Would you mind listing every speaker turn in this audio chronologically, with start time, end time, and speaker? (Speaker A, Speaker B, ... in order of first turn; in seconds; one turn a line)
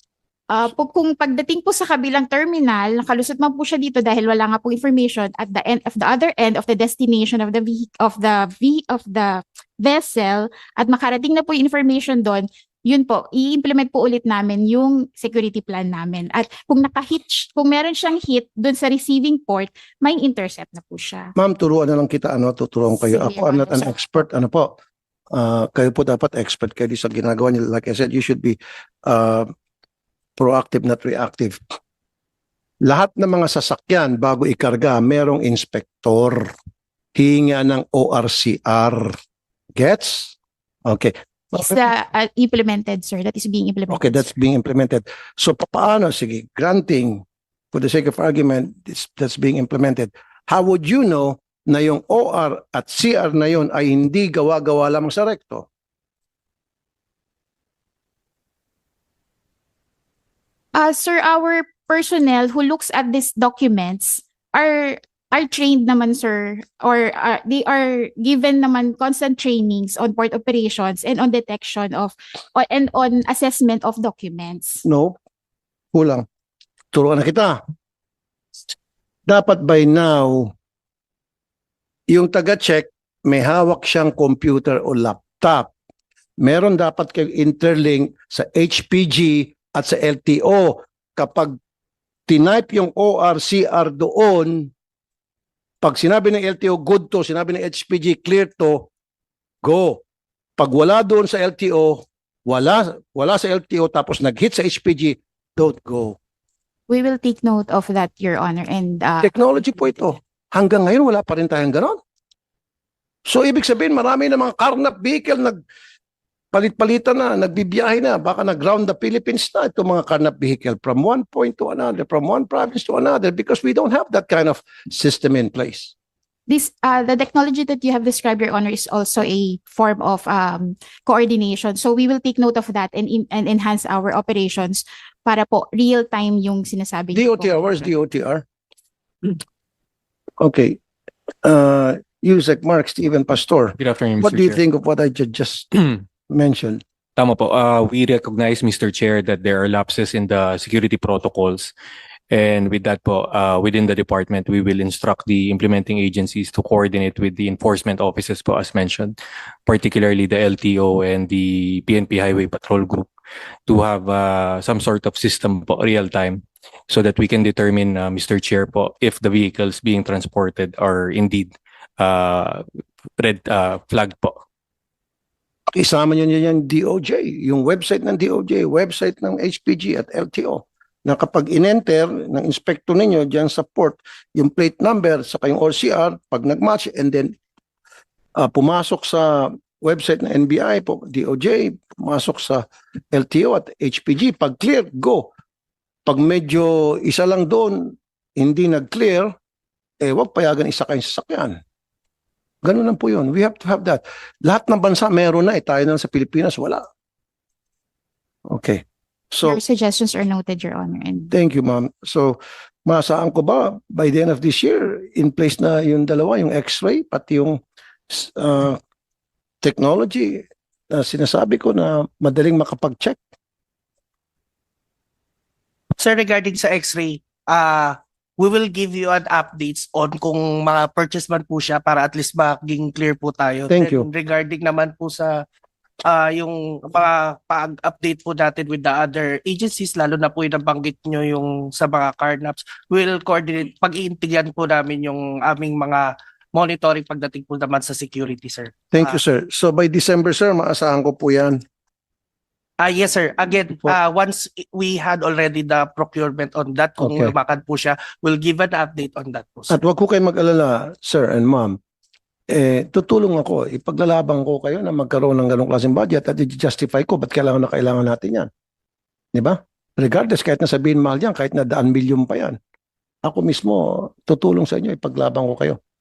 Speaker A: 0.5-21.3
Speaker B: 21.4-24.7
Speaker A: 23.0-24.2
Speaker B: 25.3-29.5
Speaker B: 30.4-31.6
Speaker B: 32.9-36.5
Speaker B: 37.1-39.1
Speaker B: 39.8-40.4
Speaker B: 40.9-41.8
Speaker A: 41.6-44.3
Speaker B: 43.9-55.7
Speaker A: 60.8-74.8
Speaker B: 74.8-75.2
Speaker B: 75.9-76.3
Speaker B: 76.9-77.6
Speaker B: 79.3-80.5
Speaker B: 82.1-85.7
Speaker B: 86.4-91.6
Speaker B: 92.3-94.7
Speaker B: 95.8-98.9
Speaker B: 99.6-100.0
Speaker B: 100.6-106.2
Speaker A: 106.9-109.4
Speaker B: 109.2-112.0
Speaker B: 113.3-115.6
Speaker B: 116.5-125.9
Speaker A: 126.5-137.9
Speaker B: 137.1-138.4
Speaker B: 140.4-140.8
Speaker B: 141.4-146.8
Speaker C: 143.8-144.6
Speaker C: 145.7-146.0
Speaker C: 147.2-151.7
Speaker C: 152.3-163.1
Speaker C: 163.7-172.6
Speaker C: 173.2-174.4
Speaker B: 175.7-187.4
Speaker B: 188.4-195.3
Speaker B: 196.1-199.3
Speaker B: 200.0-201.6
Speaker B: 202.6-206.8
Speaker B: 208.5-209.6
Speaker A: 209.4-211.3
Speaker B: 211.3-217.6
Speaker B: 218.1-218.8
Speaker B: 219.6-223.2
Speaker D: 226.0-235.3
Speaker B: 233.7-234.1
Speaker D: 236.1-249.2
Speaker B: 248.9-251.6
Speaker D: 252.8-259.8
Speaker B: 257.0-257.3
Speaker B: 259.7-261.8
Speaker B: 262.5-268.5
Speaker B: 269.3-272.6
Speaker B: 273.2-275.8